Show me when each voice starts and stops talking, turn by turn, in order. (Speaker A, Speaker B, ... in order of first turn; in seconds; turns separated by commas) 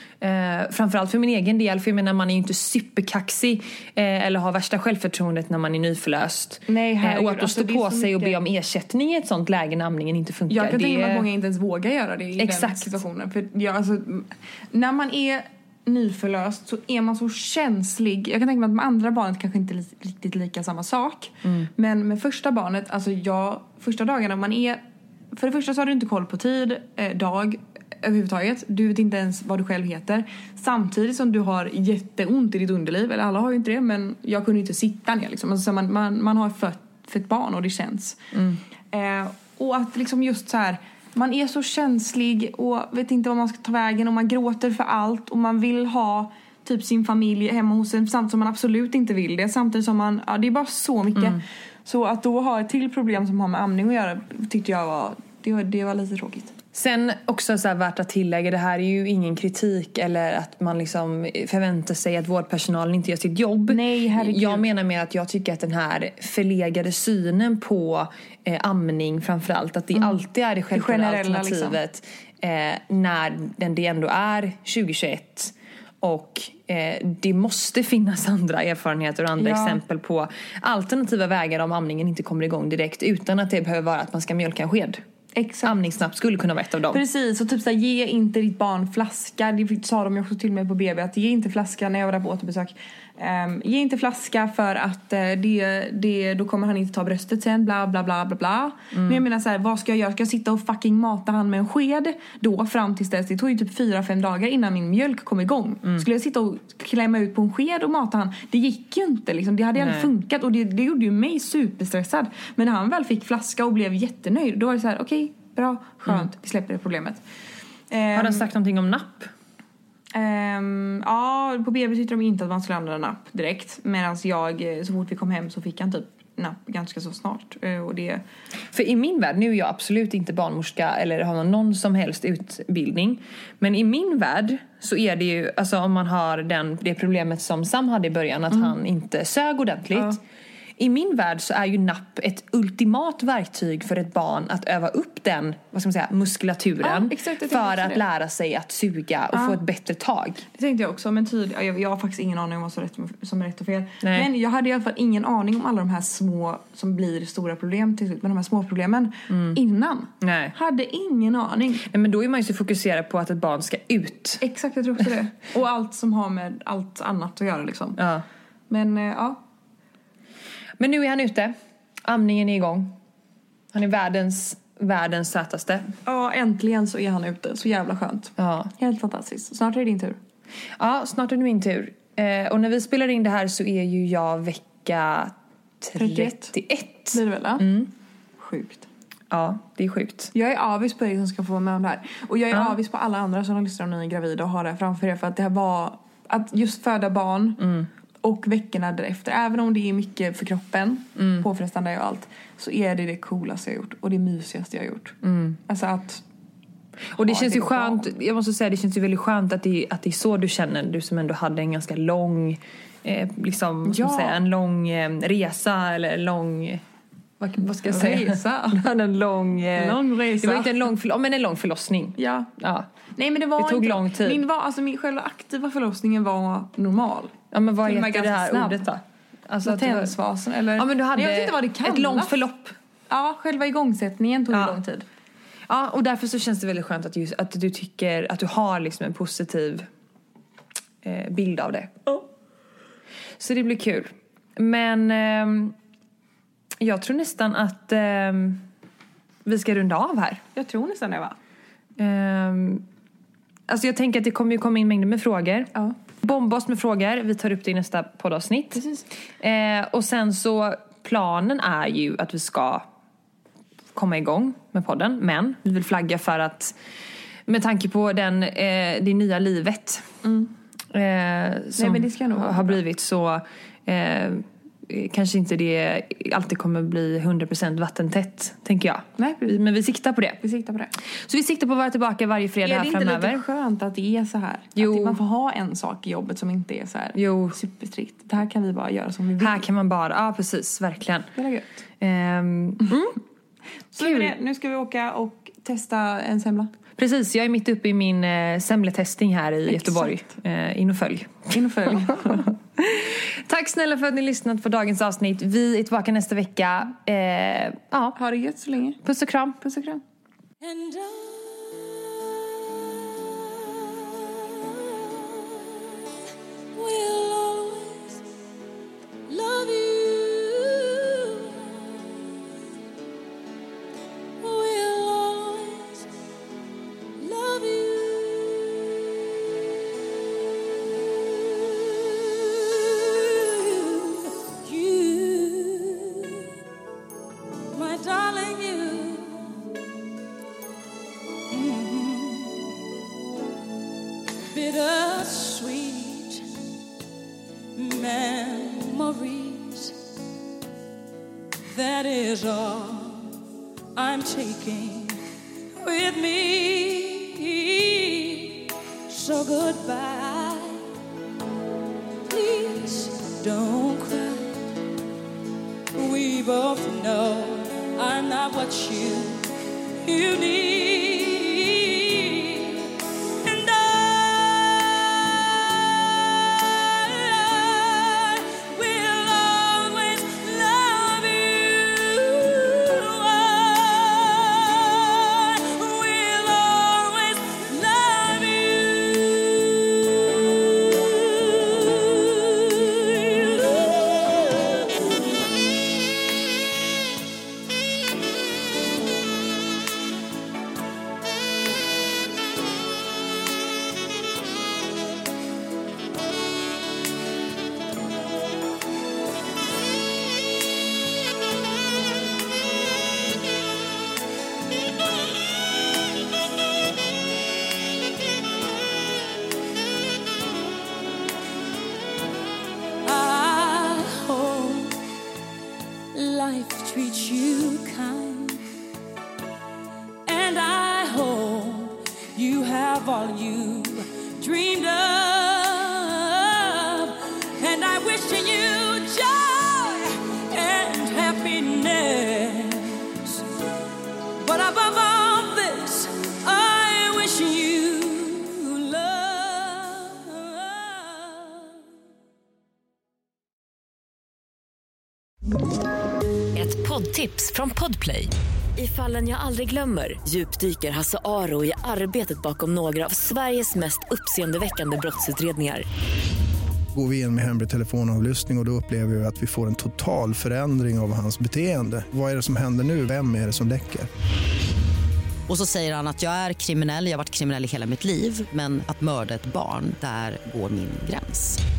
Speaker A: 0.2-11.2, Speaker B: 6.7-8.4, Speaker B: 10.5-38.2, Speaker A: 12.4-12.9, Speaker A: 21.4-21.7, Speaker A: 38.3-38.6, Speaker B: 38.9-56.5, Speaker A: 56.7-85.0, Speaker B: 63.7-64.7, Speaker B: 69.9-71.8, Speaker B: 79.4-79.8, Speaker B: 85.3-85.8, Speaker A: 85.6-87.0, Speaker B: 86.9-117.2, Speaker A: 98.9-99.2, Speaker A: 109.8-110.1, Speaker B: 117.9-118.5, Speaker A: 118.1-119.3, Speaker B: 120.1-128.2, Speaker A: 128.7-140.2, Speaker A: 140.8-150.4, Speaker B: 146.8-148.0, Speaker B: 149.3-149.6, Speaker B: 150.5-161.9, Speaker A: 154.0-154.3, Speaker A: 159.3-159.6, Speaker A: 160.2-160.6, Speaker A: 161.9-164.4, Speaker B: 164.4-168.0, Speaker A: 168.0-168.2, Speaker B: 168.7-169.4, Speaker A: 170.8-172.9, Speaker A: 173.7-175.9, Speaker B: 176.1-180.2, Speaker A: 178.4-178.7, Speaker A: 180.8-187.9, Speaker B: 186.0-186.5, Speaker B: 187.1-187.8, Speaker B: 188.4-188.9, Speaker A: 189.3-190.3, Speaker B: 190.3-206.2, Speaker A: 201.2-201.4, Speaker A: 205.2-205.6, Speaker A: 207.2-216.8, Speaker B: 207.2-208.1, Speaker B: 213.8-214.4, Speaker A: 217.4-222.9, Speaker B: 217.6-218.8, Speaker B: 219.8-220.9, Speaker B: 222.2-222.5, Speaker B: 223.2-228.9, Speaker A: 223.6-224.4, Speaker A: 227.5-230.2, Speaker B: 229.6-232.4, Speaker A: 230.8-232.8, Speaker B: 233.1-235.1, Speaker A: 234.5-234.8, Speaker A: 235.7-239.9, Speaker A: 241.0-242.0, Speaker A: 243.4-245.8, Speaker A: 246.8-248.6, Speaker A: 249.4-250.4, Speaker B: 250.6-251.4, Speaker A: 252.0-252.8, Speaker A: 253.7-258.8, Speaker B: 258.8-259.1, Speaker A: 259.4-262.9, Speaker A: 263.9-266.8, Speaker A: 267.5-270.1, Speaker B: 270.2-270.5, Speaker A: 270.9-280.4, Speaker B: 271.8-272.8, Speaker B: 279.2-279.6, Speaker B: 280.4-280.9, Speaker A: 281.2-283.4, Speaker B: 282.6-289.6, Speaker A: 284.8-285.2, Speaker A: 287.1-287.6, Speaker A: 289.4-291.3, Speaker B: 291.4-291.7, Speaker A: 292.0-293.2, Speaker B: 293.9-296.7, Speaker A: 294.0-294.3, Speaker A: 297.0-308.2, Speaker B: 299.7-300.1, Speaker B: 301.5-302.5, Speaker B: 308.2-309.0, Speaker A: 309.0-309.7, Speaker B: 309.6-310.0, Speaker C: 310.6-316.1, Speaker C: 316.7-318.2, Speaker C: 319.3-322.2, Speaker C: 324.4-326.1, Speaker C: 327.2-329.3, Speaker C: 331.0-336.5, Speaker C: 337.7-339.7, Speaker C: 341.5-342.7, Speaker C: 344.5-346.5, Speaker C: 347.8-350.0, Speaker C: 351.7-353.3, Speaker C: 353.9-355.2, Speaker C: 355.8-360.9, Speaker C: 362.3-364.7, Speaker C: 365.9-369.5, Speaker C: 370.0-394.8, Speaker C: 423.1-425.0, Speaker C: 426.1-428.7, Speaker C: 430.3-443.4, Speaker C: 444.4-451.7, Speaker D: 456.5-465.9, Speaker E: 466.9-474.1, Speaker F: 475.5-481.6